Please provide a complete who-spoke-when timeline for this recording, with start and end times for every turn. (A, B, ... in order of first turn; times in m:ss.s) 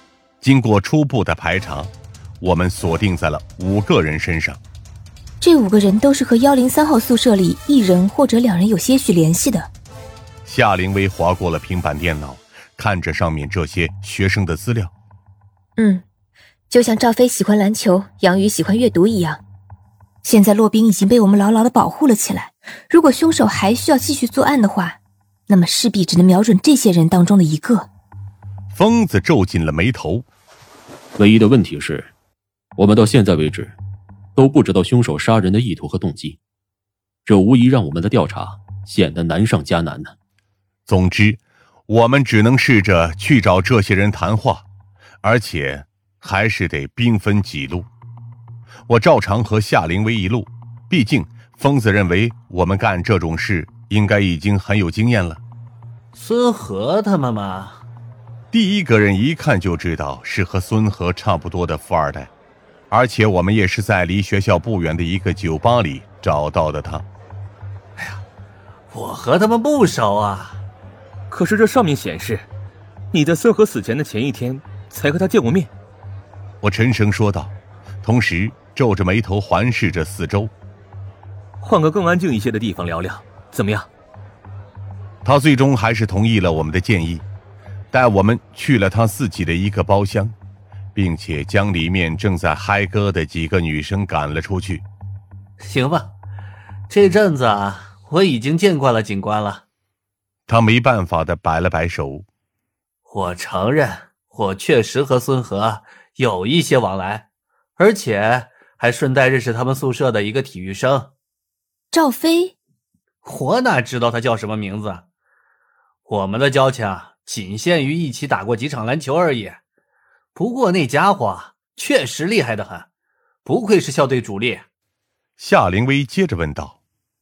0:00.4-0:04.6 A
0:05.4-0:09.7 B
0:10.4-0:14.9 A
0:15.8-0:16.0 B
0:16.7-0:19.4 B
0:20.2-0:27.9 B
0:28.7-0:30.2 A
0:31.2-0:32.1 C
0:32.8-0:33.8 C
0:34.4-0:36.4 C
0:37.2-0:40.1 C
0:40.9-0:44.6 A
0:45.2-0:47.9 A
0:48.9-0:55.4 A
0:56.1-0:57.8 D
0:58.5-1:02.3 A
1:02.9-1:07.0 A
1:08.0-1:08.2 D
1:08.9-1:10.6 D
1:11.3-1:12.5 E
1:13.1-1:15.7 E
1:16.6-1:20.5 A
1:21.6-1:23.9 E
1:25.2-1:27.2 A
1:27.9-1:30.3 A
1:30.9-1:34.8 A
1:35.6-1:36.1 D
1:36.9-1:39.6 D
1:40.5-1:42.2 A
1:43.0-1:51.1 D
1:51.9-1:52.5 B
1:53.2-1:55.0 D
1:56.0-1:59.6 D
2:00.3-2:02.9 D
2:03.4-2:04.6 D
2:05.4-2:06.8 A